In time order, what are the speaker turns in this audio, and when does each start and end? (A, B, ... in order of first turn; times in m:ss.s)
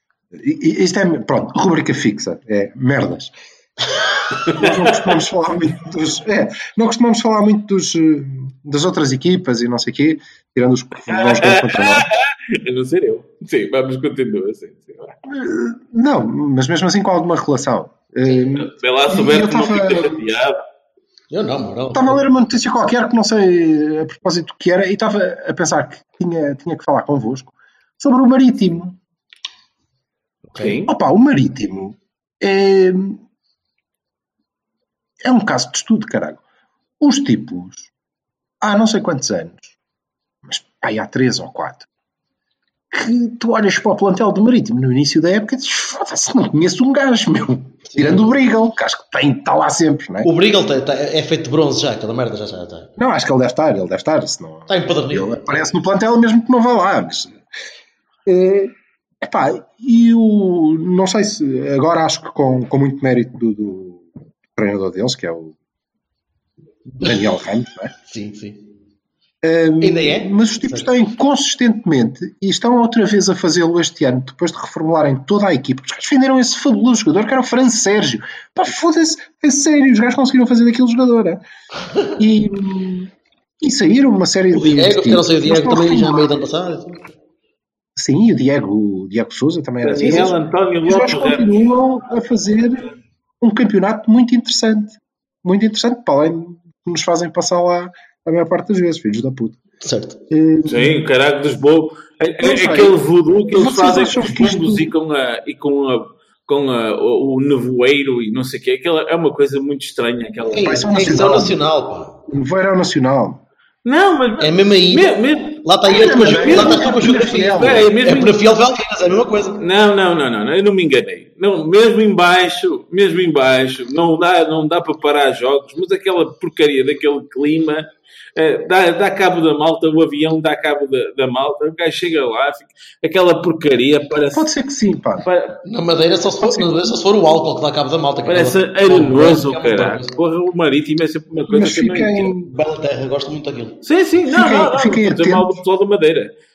0:00.3-0:12.1 A
0:04.4-0:05.0 B
0:11.1-0:15.2 B
0:15.2-0:20.4 A
0:18.5-0:20.6 B
0:21.3-0:22.3 C
0:21.9-0:29.0 A
0:30.5-0:30.9 B
0:30.8-0:33.2 A
0:35.2-0:36.4 A
0:37.0-0:37.9 A
0:38.6-0:39.7 A
0:40.4-0:41.9 A
0:42.9-0:50.3 A
0:47.9-0:48.4 C
0:50.2-0:52.9 C
0:53.0-0:57.4 A
0:54.7-0:55.7 C
0:58.2-1:05.5 A
1:06.9-1:07.3 C
1:07.0-1:07.9 A
1:08.0-1:08.7 C
1:09.4-1:21.4 A
1:09.8-1:10.8 C
1:22.1-1:26.4 A
1:24.5-1:27.0 C
1:28.0-1:32.9 A
1:29.8-1:31.5 B
1:33.4-1:39.6 A
1:39.8-1:40.2 C
1:40.3-1:41.0 A
1:40.6-1:50.9 B
1:42.4-1:43.0 A
1:43.5-1:44.9 A
1:50.5-1:52.2 C
1:50.6-1:51.6 A
1:52.3-1:53.4 A
1:53.8-1:58.4 B
1:54.4-1:59.6 C
1:55.8-1:57.9 A
1:59.6-2:14.5 B
2:14.3-2:15.3 A
2:15.2-2:15.6 B
2:15.6-2:20.1 C
2:18.2-2:22.3 B
2:21.5-2:22.5 A
2:22.4-2:23.8 C
2:23.8-2:26.3 B
2:24.2-2:25.6 A